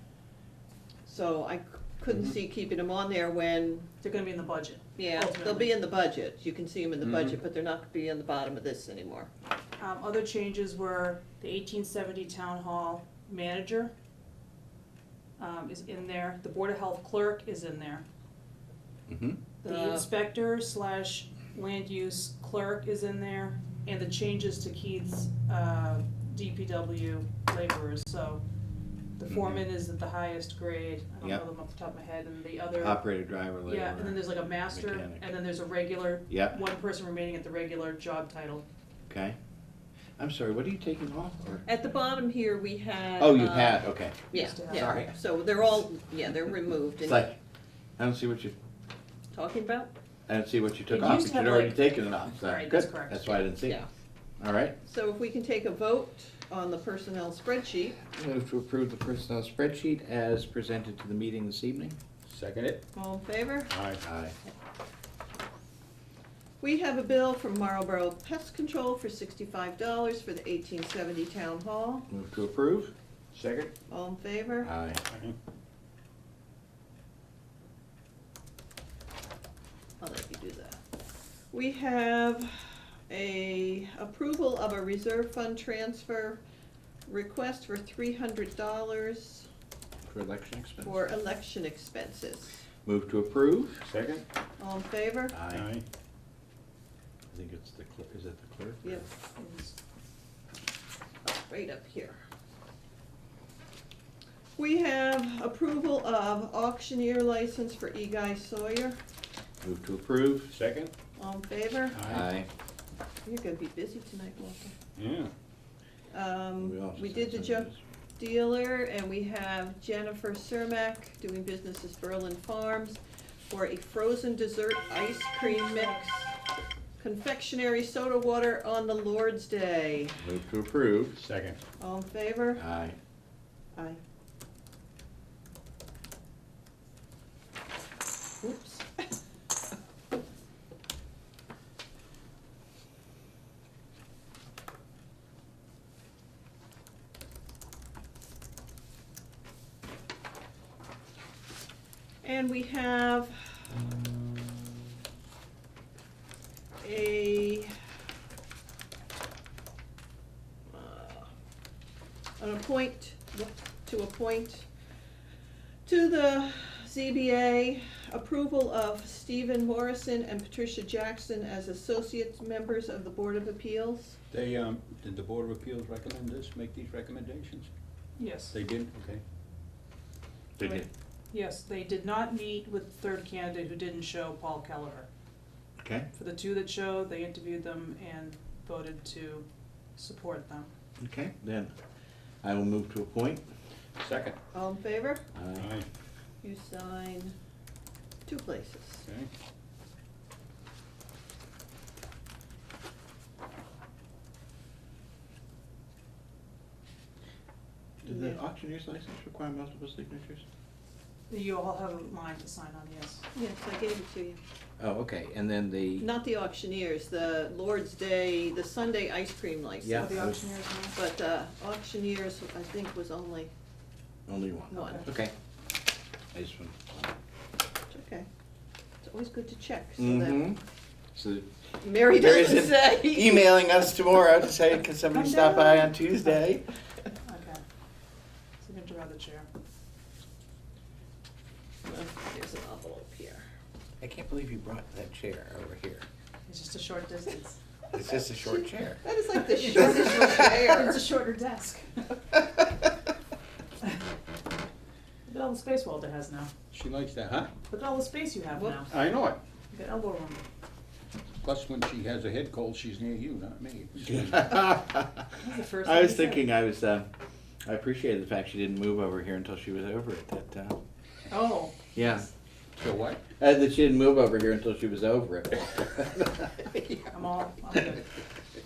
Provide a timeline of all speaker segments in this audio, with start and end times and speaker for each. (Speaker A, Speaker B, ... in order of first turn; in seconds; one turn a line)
Speaker A: 1.1-3.9
Speaker B: 4.0-5.7
Speaker A: 5.0-9.3
Speaker C: 7.0-7.4
Speaker B: 9.8-13.9
Speaker B: 15.4-18.0
Speaker D: 19.1-19.4
Speaker B: 19.6-28.4
Speaker A: 19.6-20.1
Speaker B: 29.2-38.6
Speaker D: 29.3-29.6
Speaker D: 32.8-35.2
Speaker D: 36.3-36.6
Speaker D: 39.1-39.4
Speaker D: 40.2-41.6
Speaker A: 41.6-47.2
Speaker D: 43.2-45.1
Speaker B: 44.3-45.0
Speaker D: 47.0-47.4
Speaker D: 48.0-48.5
Speaker A: 49.3-49.9
Speaker D: 50.3-53.8
Speaker B: 50.9-53.4
Speaker D: 54.4-54.7
Speaker A: 54.8-58.0
Speaker D: 58.0-62.0
Speaker C: 62.3-62.8
Speaker A: 62.9-63.7
Speaker C: 63.7-64.0
Speaker D: 64.0-64.3
Speaker A: 66.6-72.0
Speaker D: 72.1-72.9
Speaker C: 73.3-73.7
Speaker A: 73.9-74.7
Speaker D: 74.6-75.0
Speaker C: 75.1-75.3
Speaker A: 80.0-80.8
Speaker A: 81.5-86.4
Speaker A: 87.1-89.5
Speaker D: 90.0-91.0
Speaker A: 90.8-92.6
Speaker D: 92.8-93.8
Speaker C: 93.8-94.2
Speaker A: 94.6-95.3
Speaker D: 95.3-95.7
Speaker C: 95.5-95.8
Speaker D: 97.3-99.1
Speaker B: 99.3-99.7
Speaker A: 101.2-102.2
Speaker A: 104.6-109.0
Speaker D: 109.6-110.5
Speaker C: 110.5-110.9
Speaker A: 111.2-112.0
Speaker C: 111.9-112.2
Speaker D: 112.0-112.5
Speaker A: 113.2-114.7
Speaker C: 115.0-115.3
Speaker A: 116.1-126.3
Speaker D: 116.6-117.8
Speaker B: 125.4-126.0
Speaker A: 127.0-130.2
Speaker D: 130.2-131.2
Speaker C: 131.2-131.6
Speaker A: 131.8-132.6
Speaker D: 132.6-133.0
Speaker A: 133.7-134.0
Speaker A: 138.4-139.0
Speaker A: 152.2-153.7
Speaker A: 156.8-157.7
Speaker A: 160.7-161.3
Speaker A: 162.4-164.7
Speaker A: 165.8-174.2
Speaker C: 174.3-177.7
Speaker B: 178.2-178.5
Speaker C: 178.5-179.2
Speaker D: 180.6-180.8
Speaker B: 181.3-185.1
Speaker D: 185.8-186.1
Speaker B: 186.1-189.4
Speaker B: 190.0-190.7
Speaker D: 191.0-191.7
Speaker D: 192.4-193.4
Speaker C: 194.0-194.4
Speaker A: 194.5-195.2
Speaker D: 195.3-195.7
Speaker C: 195.6-195.8
Speaker A: 196.4-197.3
Speaker A: 198.2-199.0
Speaker C: 199.0-199.3
Speaker D: 208.0-210.4
Speaker A: 208.1-208.4
Speaker B: 211.3-213.2
Speaker A: 213.3-214.4
Speaker D: 214.8-216.1
Speaker A: 216.0-220.3
Speaker D: 219.8-220.4
Speaker B: 219.9-220.9
Speaker A: 220.9-223.5
Speaker D: 224.3-225.3
Speaker A: 224.7-225.1
Speaker D: 226.3-227.1
Speaker A: 227.9-228.3
Speaker A: 229.0-230.5
Speaker D: 230.0-230.6
Speaker D: 231.1-236.7
Speaker A: 231.8-233.5
Speaker B: 235.1-236.4
Speaker B: 237.2-237.6
Speaker B: 238.6-239.5
Speaker A: 241.8-243.4
Speaker D: 244.0-246.0
Speaker B: 246.5-247.6
Speaker D: 247.9-249.0
Speaker A: 247.9-251.0
Speaker B: 249.5-251.8
Speaker B: 255.3-256.5
Speaker C: 256.7-257.5
Speaker B: 257.7-258.9
Speaker A: 258.5-258.8
Speaker C: 258.9-259.4
Speaker B: 259.7-260.4
Speaker C: 261.4-264.5
Speaker D: 264.2-265.3
Speaker B: 265.4-266.4
Speaker D: 265.8-267.1
Speaker D: 267.6-270.8
Speaker B: 271.3-272.2
Speaker D: 271.9-272.3
Speaker C: 272.8-273.2
Speaker D: 273.4-277.1
Speaker B: 277.1-278.0